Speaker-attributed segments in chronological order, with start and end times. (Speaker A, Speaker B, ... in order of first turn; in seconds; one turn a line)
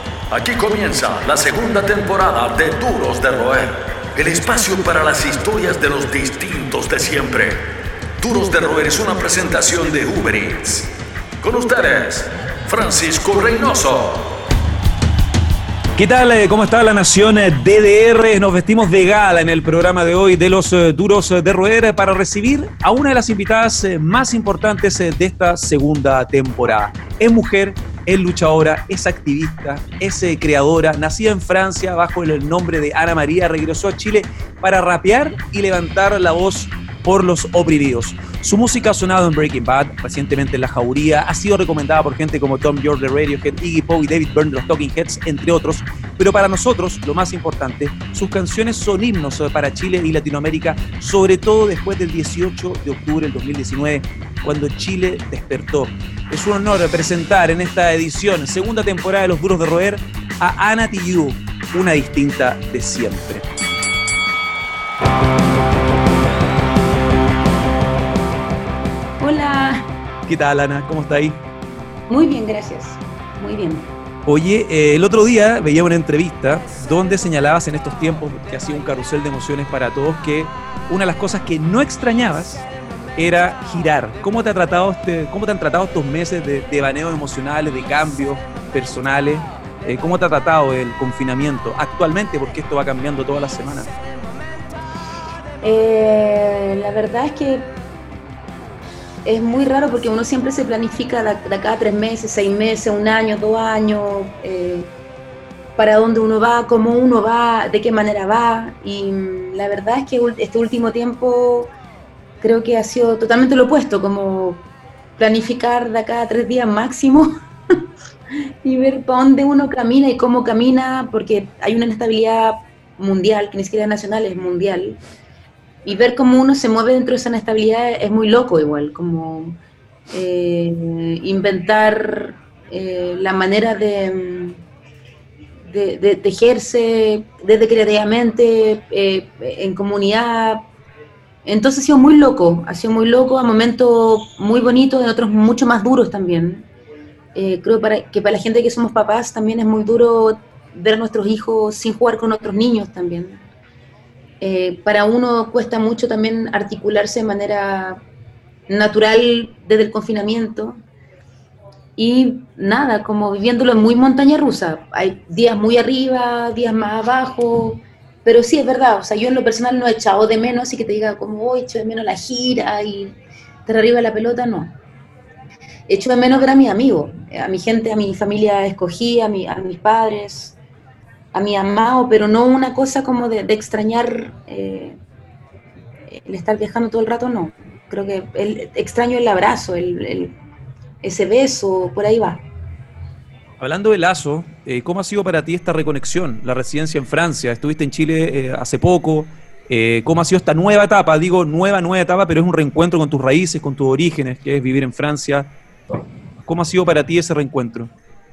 Speaker A: 0.3-7.6
Speaker A: 8.2-10.9
Speaker A: 11.4-14.4
Speaker B: 16.0-63.5
Speaker C: 69.2-69.9
Speaker B: 70.3-71.4
Speaker C: 72.1-73.9
Speaker B: 74.3-82.7
Speaker B: 83.2-93.9
Speaker C: 95.6-97.7
Speaker C: 99.2-104.9
Speaker C: 105.8-111.7
Speaker C: 112.4-114.7
Speaker C: 115.2-117.3
Speaker C: 118.6-125.0
Speaker C: 125.8-129.6
Speaker C: 130.1-134.6
Speaker C: 135.7-140.7
Speaker C: 141.4-146.7
Speaker C: 147.3-153.4
Speaker C: 154.4-158.0
Speaker C: 158.7-160.8
Speaker C: 162.0-174.8
Speaker C: 175.9-180.6
Speaker C: 181.3-185.0
Speaker C: 186.1-190.4
Speaker C: 191.0-192.4
Speaker B: 193.6-205.6
Speaker B: 206.5-207.9